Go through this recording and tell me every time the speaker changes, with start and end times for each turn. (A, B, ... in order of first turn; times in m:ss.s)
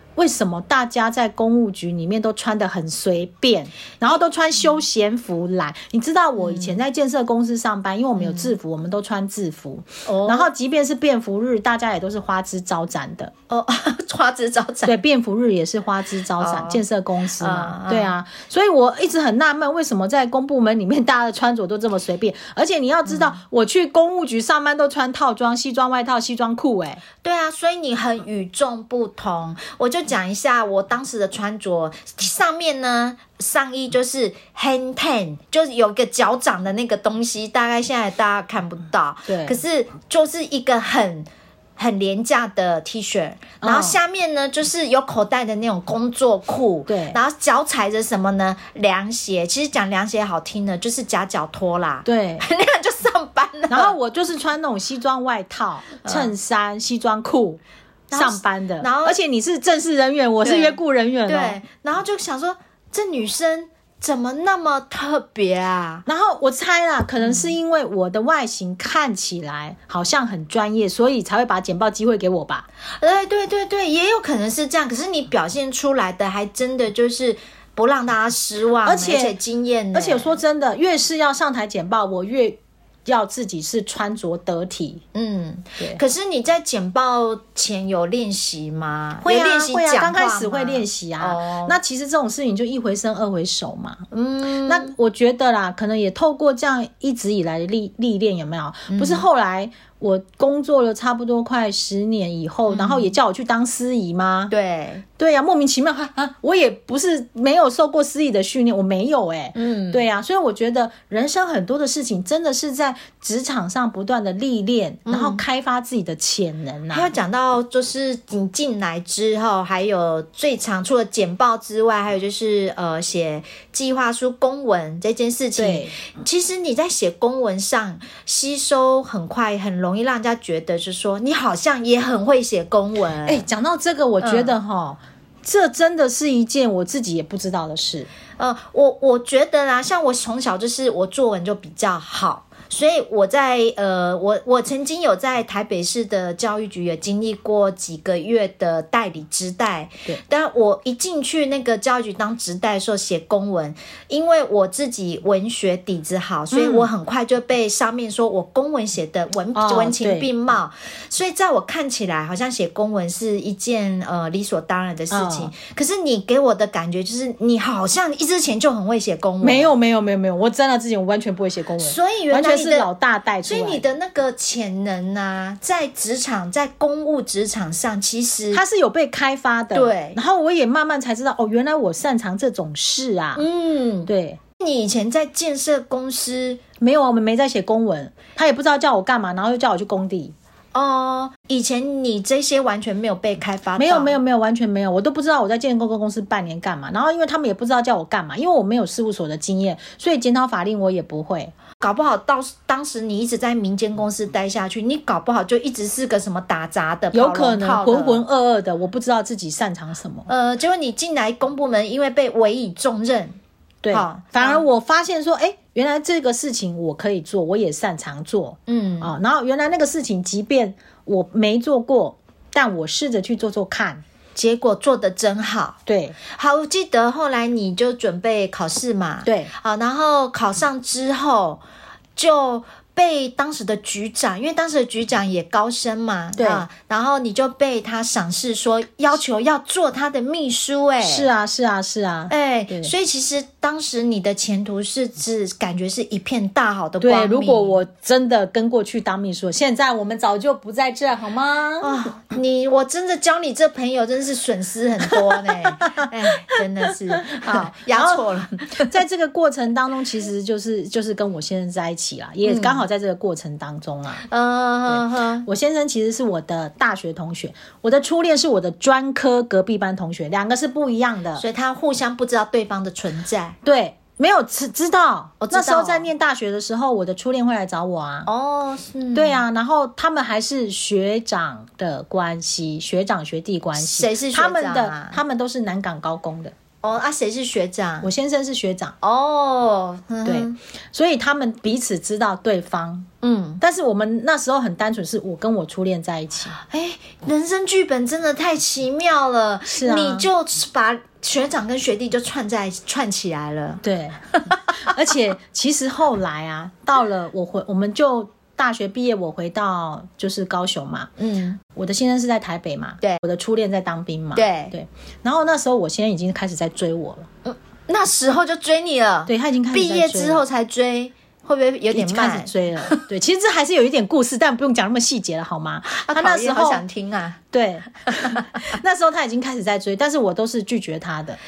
0:00.2-0:13.3 A
0:06.4-0:06.8 B
0:08.2-0:08.5 B
0:10.1-0:10.5 B
0:13.5-0:14.9 B
0:14.8-0:27.0 A
0:16.4-0:16.8 B
0:17.4-0:18.1 B
0:23.1-0:23.4 B
0:27.2-0:53.9 B
0:39.3-0:39.6 A
0:43.6-0:44.0 A
0:46.9-0:47.2 A
0:52.0-0:52.5 A
0:53.7-0:57.6 A
0:56.0-0:56.3 B
0:58.1-0:59.2 B
0:58.1-1:01.6 A
1:00.4-1:06.1 B
1:06.1-1:12.6 A
1:07.2-1:07.5 B
1:13.0-1:20.4 B
1:18.8-1:19.4 A
1:19.9-1:25.0 A
1:25.1-1:31.8 B
1:29.2-1:34.0 A
1:34.1-1:34.9 B
1:34.6-1:44.5 A
1:38.9-1:39.3 B
1:42.7-1:43.2 B
1:44.5-1:45.0 B
1:45.2-1:57.1 A
1:49.5-1:50.0 B
1:55.1-1:55.4 B
1:56.9-2:13.4 B
2:05.6-2:05.9 A
2:13.2-2:18.1 A
2:14.2-2:14.6 B
2:18.4-2:49.7 B
2:36.5-2:36.9 A
2:39.5-2:40.3 A
2:45.1-2:45.5 A
2:49.4-2:53.8 A
2:51.8-2:52.9 B
2:53.4-2:58.6 B
2:58.5-3:03.4 A
2:59.7-3:00.2 B
3:03.4-3:06.6 B
3:04.1-3:04.4 A
3:06.8-3:10.3 A
3:10.7-3:14.2 B
3:13.8-3:21.5 A
3:21.8-3:28.2 B
3:27.1-3:30.3 A
3:30.3-3:33.4 B
3:33.8-3:44.0 A
3:33.9-3:34.6 B
3:38.7-3:39.1 B
3:44.3-3:51.6 B
3:45.8-3:46.2 A
3:49.2-3:49.5 A
3:52.2-4:01.3 B
3:56.4-3:56.6 A
4:01.0-4:02.9 A
4:02.3-4:07.8 B
4:07.0-4:12.0 A
4:11.8-4:18.9 B
4:17.2-4:24.2 A
4:22.4-4:22.8 B
4:24.2-4:25.5 B
4:24.9-4:31.4 A
4:31.4-4:33.6 B
4:33.6-4:38.3 A
4:35.4-4:36.1 B
4:38.3-4:39.4 B
4:39.1-4:46.5 A
4:43.8-4:45.2 B
4:46.8-4:48.1 B
4:48.0-4:48.9 A
4:49.0-4:50.6 B
4:50.2-4:53.1 A
4:53.2-4:53.6 B
4:53.6-4:56.6 A
4:56.6-5:03.8 B
4:59.7-5:00.3 A
5:03.8-5:11.1 A
5:04.3-5:04.9 B
5:11.2-5:11.6 B
5:11.8-5:17.3 A
5:14.3-5:14.7 B
5:17.4-5:23.0 B
5:19.3-5:20.4 A
5:21.9-5:26.8 A
5:25.9-5:27.4 B
5:27.5-5:31.4 A
5:28.1-5:28.5 B